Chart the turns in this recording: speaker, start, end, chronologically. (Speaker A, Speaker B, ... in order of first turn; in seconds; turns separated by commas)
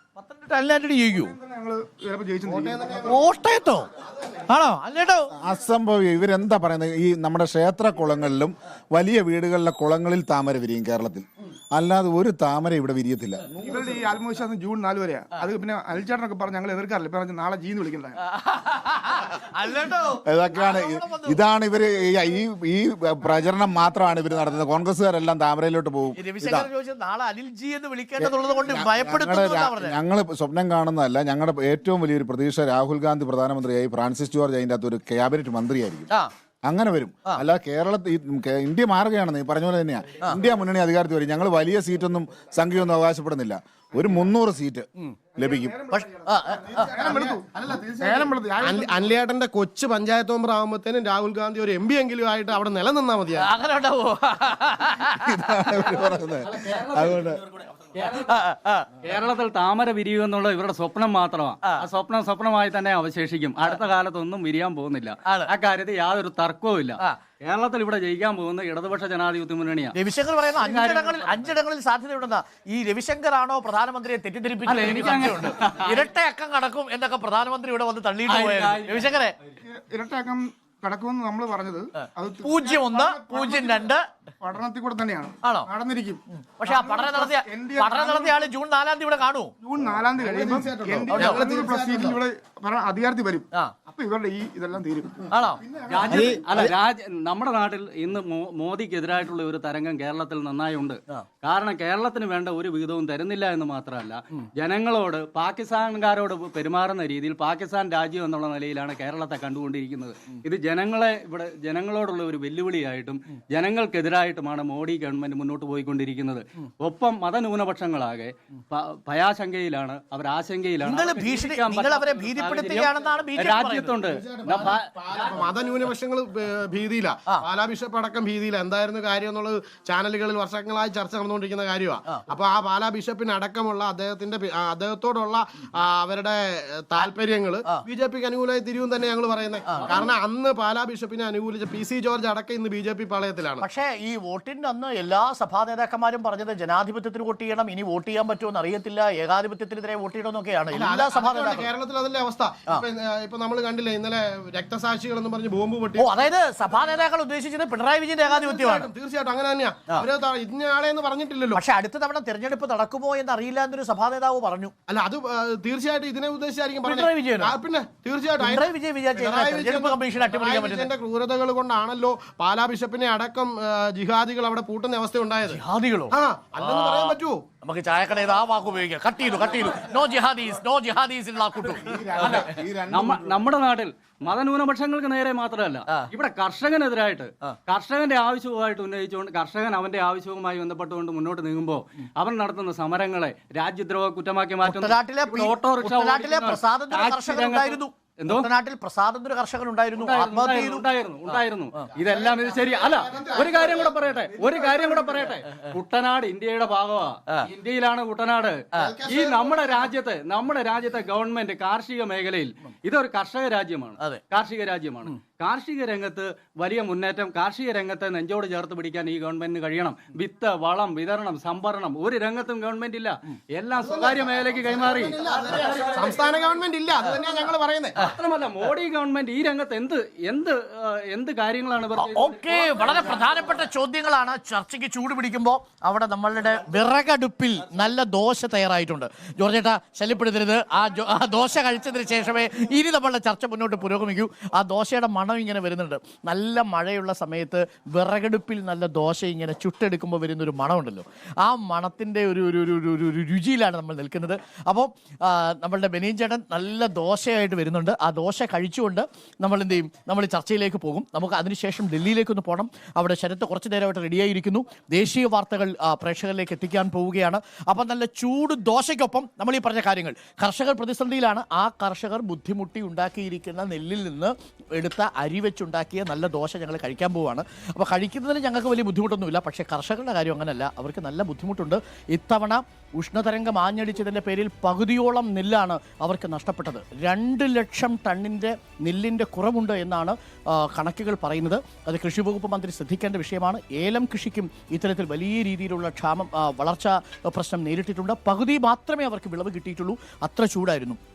Speaker A: 0.1-1.3, Speaker B: 1.1-3.2, Speaker C: 2.5-3.1, Speaker A: 3.0-3.9, Speaker A: 4.5-5.3, Speaker D: 5.4-14.0, Speaker B: 13.6-18.1, Speaker A: 18.2-21.4, Speaker D: 20.2-26.7, Speaker A: 26.1-29.9, Speaker D: 28.2-36.1, Speaker D: 36.6-45.8, Speaker B: 45.4-49.1, Speaker A: 45.9-47.1, Speaker C: 47.0-53.5, Speaker A: 53.4-56.0, Speaker D: 55.2-57.4, Speaker E: 56.4-57.4, Speaker E: 57.9-58.3, Speaker A: 58.1-58.9, Speaker E: 59.0-69.9, Speaker A: 65.2-65.5, Speaker A: 69.9-79.3, Speaker E: 70.5-71.5, Speaker E: 74.7-76.1, Speaker E: 78.3-79.1, Speaker B: 79.6-88.5, Speaker A: 82.0-84.0, Speaker A: 85.4-85.7, Speaker A: 86.3-89.5, Speaker B: 89.6-96.4, Speaker C: 90.2-92.2, Speaker A: 91.1-91.4, Speaker A: 95.3-96.4, Speaker E: 95.9-125.3, Speaker A: 120.8-124.0, Speaker D: 124.3-124.8, Speaker C: 124.5-143.6, Speaker A: 143.6-151.7, Speaker C: 150.7-156.3, Speaker A: 156.0-158.9, Speaker C: 158.2-161.6, Speaker A: 161.5-164.7, Speaker C: 164.9-175.6, Speaker A: 166.8-167.5, Speaker A: 168.4-170.9, Speaker A: 175.5-182.3, Speaker C: 176.1-177.4, Speaker D: 181.7-183.4, Speaker E: 182.2-198.5, Speaker A: 194.6-200.8, Speaker E: 199.9-225.9, Speaker C: 202.2-203.9, Speaker A: 208.7-209.0, Speaker C: 208.8-209.8, Speaker C: 223.8-228.0, Speaker E: 228.0-233.2, Speaker A: 231.9-301.0